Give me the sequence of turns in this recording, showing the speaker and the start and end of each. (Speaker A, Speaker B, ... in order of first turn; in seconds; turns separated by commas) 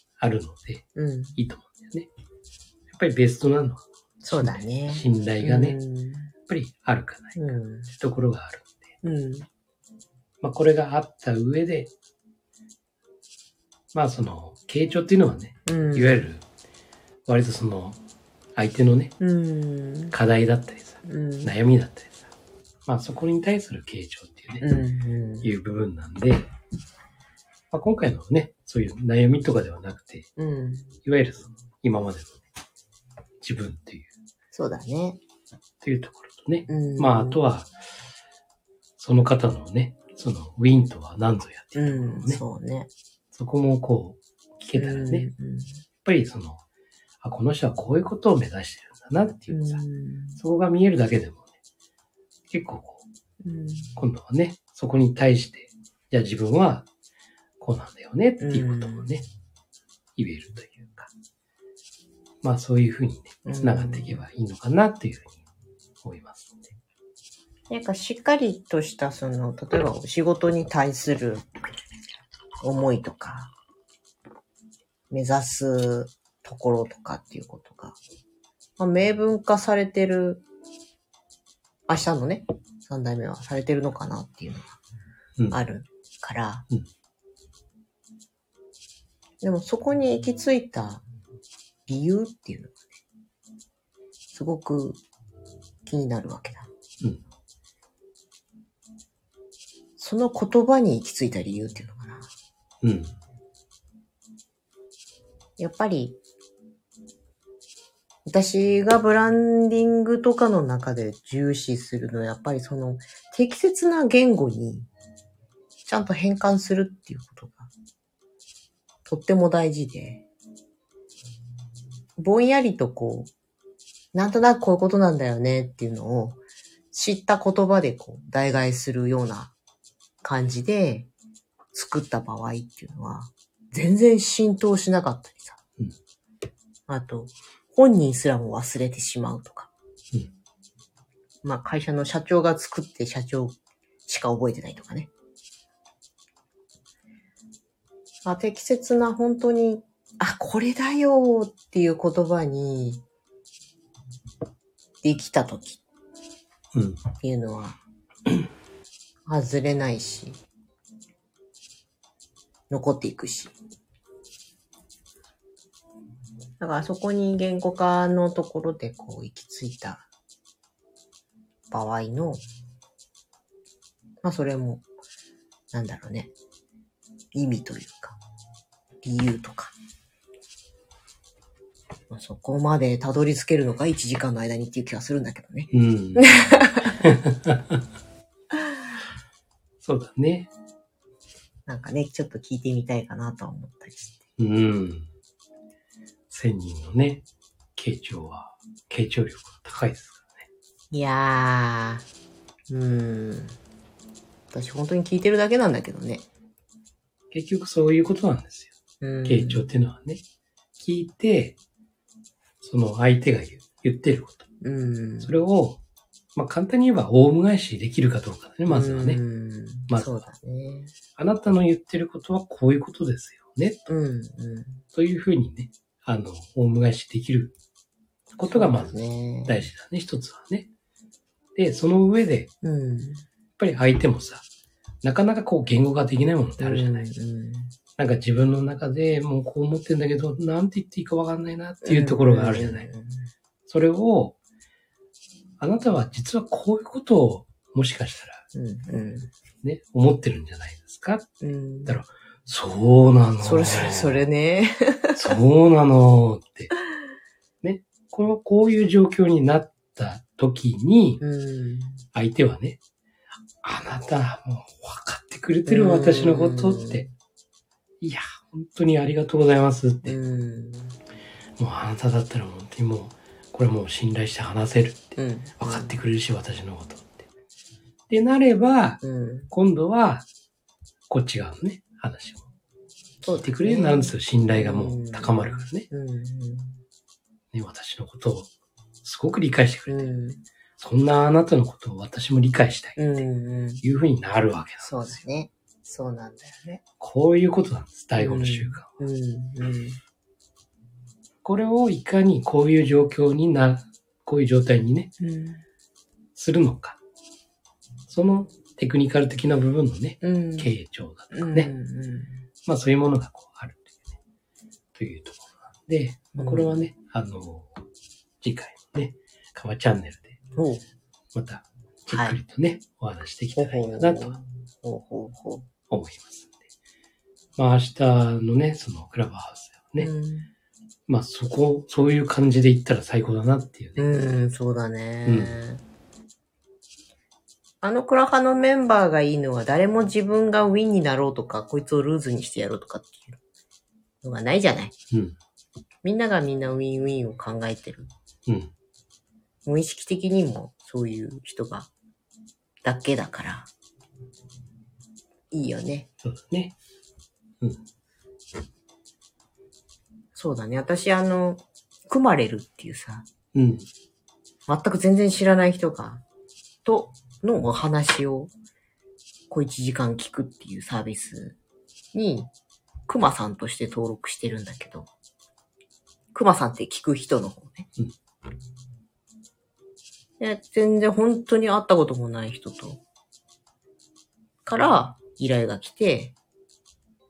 Speaker A: 0.2-0.8, Speaker B: 0.9-1.4, Speaker A: 1.4-2.1, Speaker A: 2.9-5.8, Speaker B: 4.2-6.3, Speaker A: 6.5-8.9, Speaker B: 7.4-7.9, Speaker B: 9.0-9.5, Speaker A: 10.4-11.9, Speaker A: 13.9-16.4, Speaker B: 15.7-16.3, Speaker A: 17.3-18.0, Speaker A: 18.6-19.2, Speaker B: 19.2-20.1, Speaker A: 20.1-22.3, Speaker B: 21.0-21.5, Speaker A: 22.9-24.6, Speaker B: 24.6-25.5, Speaker A: 25.4-26.5, Speaker A: 27.7-30.3, Speaker B: 30.4-30.9, Speaker A: 31.1-32.4, Speaker A: 33.4-34.1, Speaker B: 34.5-35.2, Speaker A: 35.8-37.7, Speaker B: 36.7-37.4, Speaker A: 39.0-42.4, Speaker B: 41.8-42.9, Speaker A: 43.3-45.3, Speaker B: 44.8-45.8, Speaker A: 46.0-46.6, Speaker A: 47.2-49.8, Speaker B: 49.5-50.4, Speaker A: 50.4-51.5, Speaker A: 52.5-53.0, Speaker B: 53.4-54.0, Speaker A: 54.0-56.9, Speaker A: 57.6-59.2, Speaker B: 58.4-59.1, Speaker A: 60.2-61.1, Speaker A: 62.4-65.4, Speaker B: 63.5-64.2, Speaker A: 66.0-66.7, Speaker B: 67.7-71.5, Speaker B: 72.6-73.5, Speaker B: 75.1-78.0, Speaker B: 78.8-80.4, Speaker B: 81.9-84.8, Speaker B: 85.5-86.7, Speaker B: 89.4-91.0, Speaker B: 91.9-92.8, Speaker B: 94.3-95.0, Speaker B: 95.8-96.7, Speaker B: 100.0-102.3, Speaker A: 102.8-103.1, Speaker B: 105.6-106.2, Speaker B: 108.3-114.9, Speaker B: 115.8-117.7, Speaker B: 119.1-120.3, Speaker B: 122.2-123.3, Speaker B: 124.1-126.4, Speaker B: 126.9-129.5, Speaker B: 130.2-131.1, Speaker B: 131.7-135.6, Speaker B: 136.9-139.7, Speaker B: 141.4-143.6, Speaker B: 144.1-145.1, Speaker B: 148.2-153.0, Speaker B: 155.0-155.8, Speaker A: 156.7-157.0, Speaker B: 157.2-157.8, Speaker B: 159.3-160.4, Speaker B: 162.7-163.5, Speaker B: 166.6-170.1, Speaker B: 171.7-172.4, Speaker B: 174.2-174.8, Speaker B: 175.7-176.3, Speaker B: 177.3-178.2, Speaker B: 179.0-179.7, Speaker B: 182.1-187.0, Speaker A: 185.7-186.3, Speaker A: 187.0-187.8, Speaker A: 189.8-190.5, Speaker B: 191.7-194.2, Speaker A: 194.4-195.1, Speaker A: 196.3-200.5, Speaker B: 200.9-202.1, Speaker B: 202.7-203.6, Speaker B: 204.5-206.3, Speaker A: 207.3-208.7, Speaker B: 209.0-209.7, Speaker A: 209.3-210.2, Speaker A: 210.8-211.6, Speaker A: 212.6-214.5, Speaker B: 214.6-215.3, Speaker A: 215.2-215.8, Speaker A: 216.3-219.2, Speaker B: 218.7-220.9, Speaker A: 221.2-223.9, Speaker B: 223.9-224.8, Speaker A: 224.9-227.6, Speaker A: 228.4-230.7, Speaker B: 228.5-229.6, Speaker A: 231.6-232.5, Speaker B: 232.6-233.2, Speaker A: 233.6-234.4, Speaker A: 235.0-237.1, Speaker B: 236.6-237.7, Speaker A: 238.0-242.9, Speaker B: 241.8-243.3, Speaker A: 243.7-244.4, Speaker A: 245.6-248.4, Speaker B: 248.5-249.3, Speaker A: 249.6-251.3, Speaker B: 251.4-252.0, Speaker A: 251.9-254.3, Speaker B: 253.4-255.4, Speaker A: 255.2-256.7, Speaker A: 257.6-261.2, Speaker B: 261.2-262.1, Speaker A: 262.1-262.8, Speaker A: 263.6-267.1, Speaker B: 265.7-267.1, Speaker A: 268.0-270.2, Speaker B: 270.1-271.0, Speaker A: 271.6-277.3, Speaker B: 275.2-276.0, Speaker A: 278.1-280.3, Speaker B: 279.0-279.5, Speaker A: 281.1-282.4, Speaker B: 283.2-286.8, Speaker A: 283.3-285.9, Speaker A: 287.5-288.5, Speaker A: 289.0-290.1, Speaker B: 289.9-290.4, Speaker A: 290.8-293.1, Speaker B: 293.0-293.8, Speaker A: 293.8-295.2, Speaker B: 294.8-296.8, Speaker A: 297.0-298.9, Speaker B: 298.2-300.0, Speaker A: 301.4-305.1, Speaker B: 305.2-305.6, Speaker A: 306.4-307.0, Speaker A: 308.1-311.7, Speaker B: 310.2-310.7, Speaker B: 311.3-312.4, Speaker A: 312.6-314.2, Speaker A: 314.9-317.8, Speaker B: 316.4-316.8, Speaker A: 318.4-320.4, Speaker B: 320.6-320.8, Speaker A: 321.3-324.4, Speaker B: 322.1-322.4, Speaker B: 323.6-325.7, Speaker A: 325.9-326.6, Speaker A: 327.6-330.1, Speaker B: 330.0-330.5, Speaker A: 331.1-334.1, Speaker B: 334.0-335.8, Speaker A: 335.3-335.6, Speaker B: 337.8-343.4, Speaker B: 344.2-344.9, Speaker A: 345.1-345.4, Speaker B: 346.0-348.1, Speaker A: 348.5-348.7, Speaker B: 349.7-351.9, Speaker B: 352.8-353.7, Speaker B: 355.5-356.1, Speaker A: 356.2-356.8, Speaker B: 360.4-363.3, Speaker A: 363.5-363.9, Speaker B: 364.7-366.2, Speaker B: 366.9-368.5, Speaker B: 369.5-371.6, Speaker B: 372.1-372.5, Speaker B: 373.1-375.1, Speaker B: 376.3-377.9, Speaker B: 380.4-383.0, Speaker B: 384.6-386.4